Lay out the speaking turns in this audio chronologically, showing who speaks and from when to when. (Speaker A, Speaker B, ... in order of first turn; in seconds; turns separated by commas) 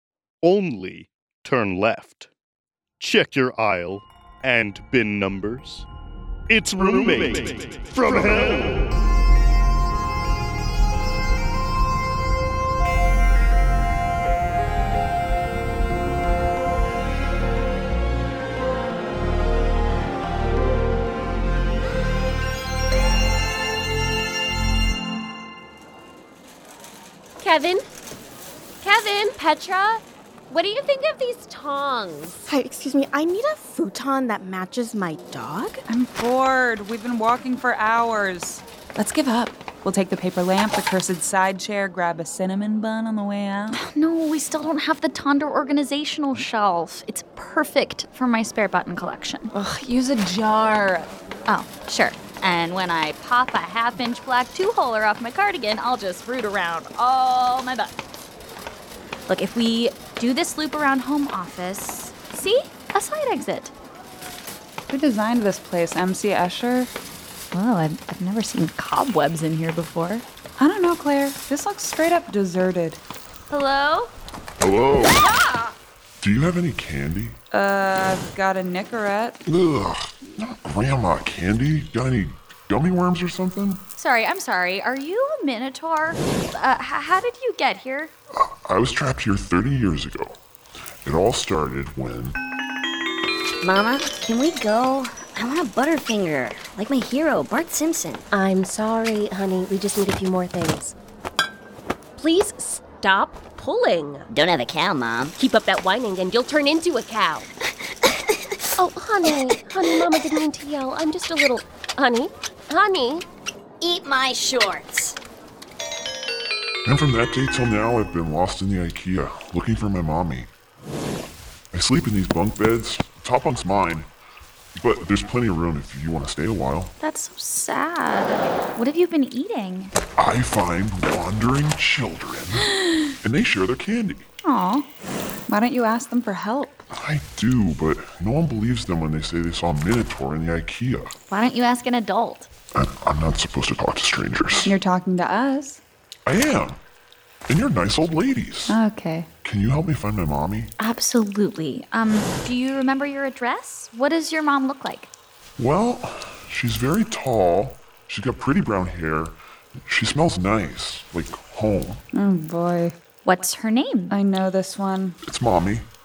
Speaker A: 0.4-2.3, Speaker A: 3.0-5.9, Speaker A: 6.5-8.8, Speaker B: 27.4-27.8, Speaker B: 28.8-32.4, Speaker C: 32.5-35.8, Speaker D: 35.9-43.8, Speaker E: 43.7-49.5, Speaker D: 49.5-51.1, Speaker E: 51.5-58.0, Speaker E: 59.3-63.7, Speaker D: 64.9-66.9, Speaker E: 67.5-70.2, Speaker D: 70.6-73.0, Speaker E: 73.5-74.1, Speaker F: 74.6-75.3, Speaker F: 76.2-77.4, Speaker D: 77.5-79.4, Speaker F: 79.5-83.8, Speaker E: 84.0-88.1, Speaker F: 88.3-90.4, Speaker F: 91.0-92.4, Speaker G: 93.6-98.2, Speaker B: 98.3-100.9, Speaker B: 102.2-104.3, Speaker G: 104.3-105.3, Speaker B: 105.3-107.5, Speaker B: 108.8-113.2, Speaker G: 113.8-115.2, Speaker F: 116.8-120.5, Speaker F: 121.7-124.1, Speaker F: 124.8-126.9, Speaker E: 127.0-129.9, Speaker F: 130.2-134.2, Speaker E: 134.4-134.9, Speaker D: 135.5-136.8, Speaker F: 136.9-141.1, Speaker E: 141.3-142.5, Speaker F: 142.7-144.8, Speaker D: 144.6-145.8, Speaker F: 146.2-146.8, Speaker F: 147.5-148.8, Speaker D: 148.7-149.3, Speaker F: 149.4-150.7, Speaker E: 150.8-155.1, Speaker F: 155.6-162.0, Speaker D: 162.1-162.9, Speaker E: 163.2-164.1, Speaker D: 164.1-165.2, Speaker F: 165.2-165.9